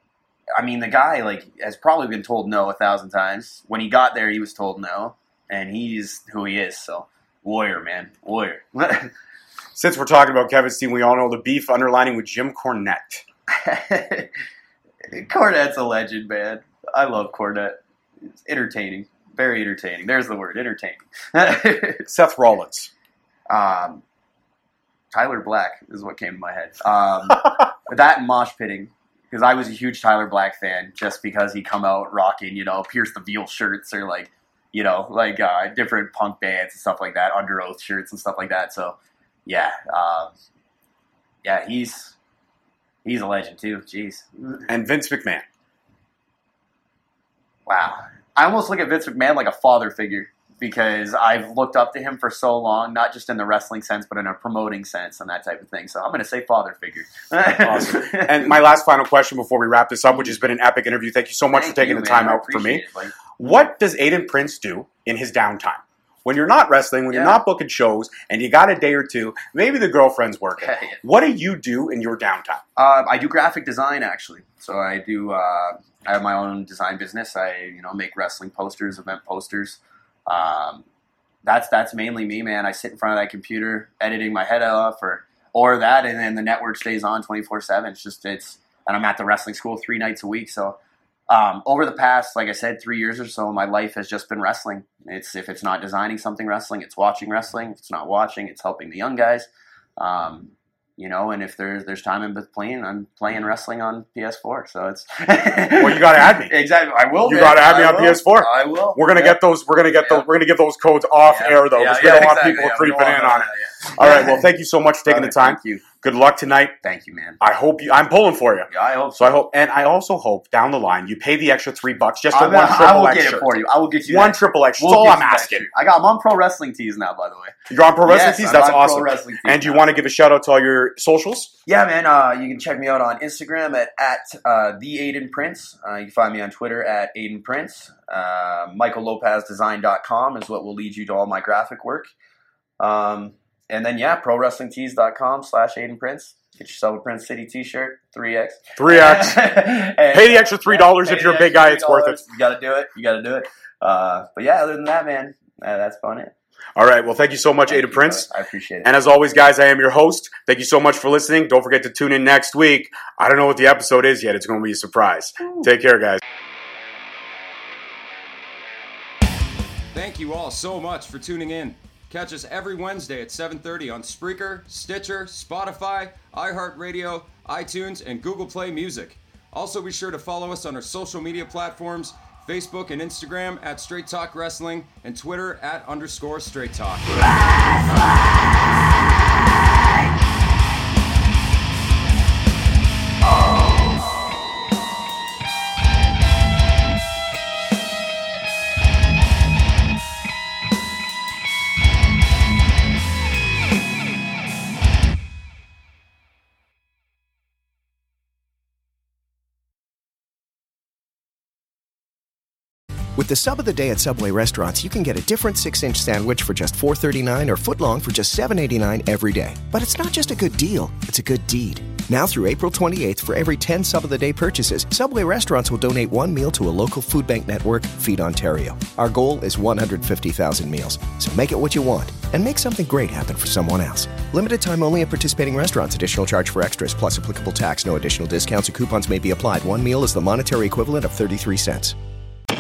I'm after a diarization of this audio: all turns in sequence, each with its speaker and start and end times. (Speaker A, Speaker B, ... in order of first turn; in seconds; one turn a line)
Speaker A: 0.6-9.1
Speaker B: 9.8-13.2
Speaker A: 13.5-14.3
Speaker A: 15.1-17.8
Speaker A: 18.4-22.1
Speaker B: 22.1-22.9
Speaker A: 23.5-24.0
Speaker A: 25.1-40.3
Speaker A: 41.4-42.1
Speaker A: 43.0-44.7
Speaker B: 44.7-45.5
Speaker A: 47.7-58.6
Speaker B: 57.6-72.6
Speaker A: 61.5-63.1
Speaker A: 67.1-67.4
Speaker A: 70.6-71.0
Speaker A: 72.8-80.8
Speaker A: 81.5-90.8
Speaker A: 91.3-109.4
Speaker B: 105.8-106.5
Speaker B: 107.2-116.8
Speaker A: 111.3-114.4
Speaker A: 115.1-115.8
Speaker A: 116.8-117.4
Speaker B: 117.4-125.7
Speaker A: 118.7-119.4
Speaker A: 122.3-129.9
Speaker B: 127.7-131.5
Speaker A: 131.7-142.1
Speaker A: 142.8-156.3
Speaker B: 148.8-152.2
Speaker B: 156.8-158.3
Speaker A: 157.7-158.9
Speaker B: 158.8-166.2
Speaker C: 169.9-187.2
Speaker D: 213.2-242.0